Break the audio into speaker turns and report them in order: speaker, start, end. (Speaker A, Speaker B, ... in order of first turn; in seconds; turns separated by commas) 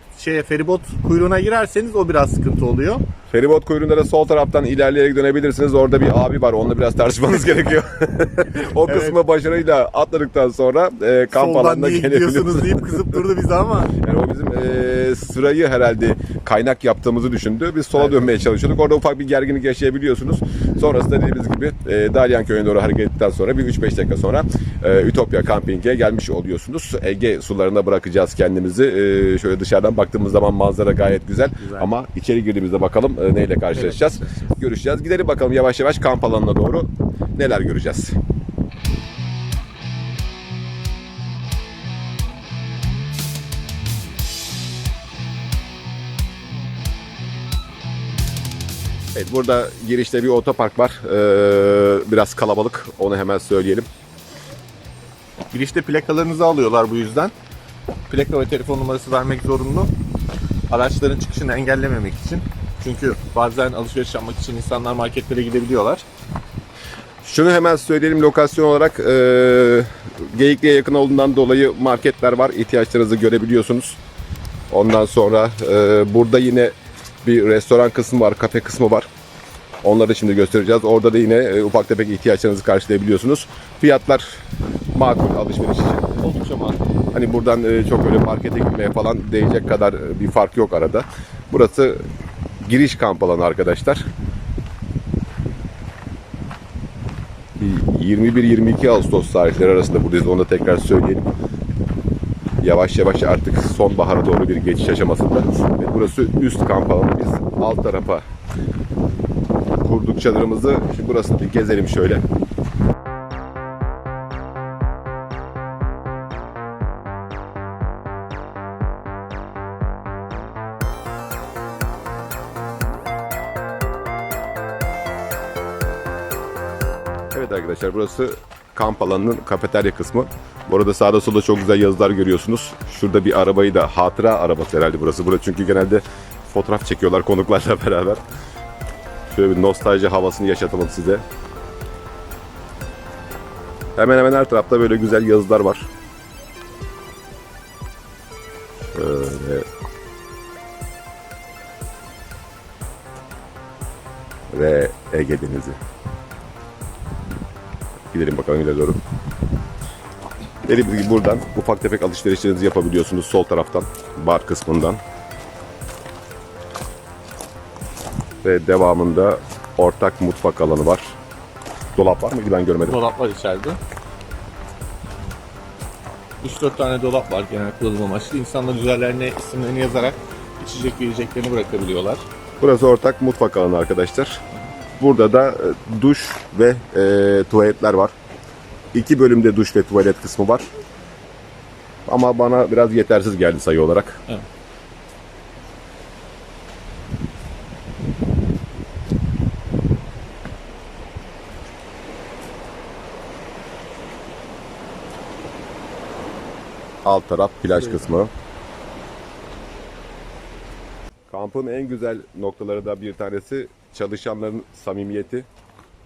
Speaker A: 0.2-3.0, Speaker B: 3.3-13.3, Speaker A: 8.8-9.2, Speaker A: 11.3-14.0, Speaker B: 14.0-38.2, Speaker A: 31.6-31.9, Speaker A: 33.7-34.5, Speaker B: 49.1-53.9, Speaker A: 55.5-57.3, Speaker A: 58.1-59.9, Speaker A: 60.7-66.1, Speaker B: 67.2-74.0, Speaker B: 74.7-79.1, Speaker B: 79.8-84.4, Speaker B: 84.9-86.1, Speaker A: 86.2-86.8, Speaker B: 87.1-92.0, Speaker B: 92.6-94.0, Speaker B: 97.6-101.2, Speaker B: 102.6-108.2, Speaker B: 109.8-112.2, Speaker B: 127.3-138.2, Speaker B: 139.3-141.2, Speaker B: 144.0-145.9, Speaker B: 148.9-149.7, Speaker B: 154.5-155.8, Speaker B: 158.1-159.0, Speaker B: 160.7-165.0, Speaker B: 168.4-171.2, Speaker B: 172.0-173.0, Speaker A: 172.8-173.8, Speaker A: 176.4-182.2, Speaker B: 182.6-184.4, Speaker B: 185.0-188.1, Speaker B: 188.9-190.7, Speaker B: 192.1-194.2, Speaker B: 207.1-208.3, Speaker B: 211.3-215.5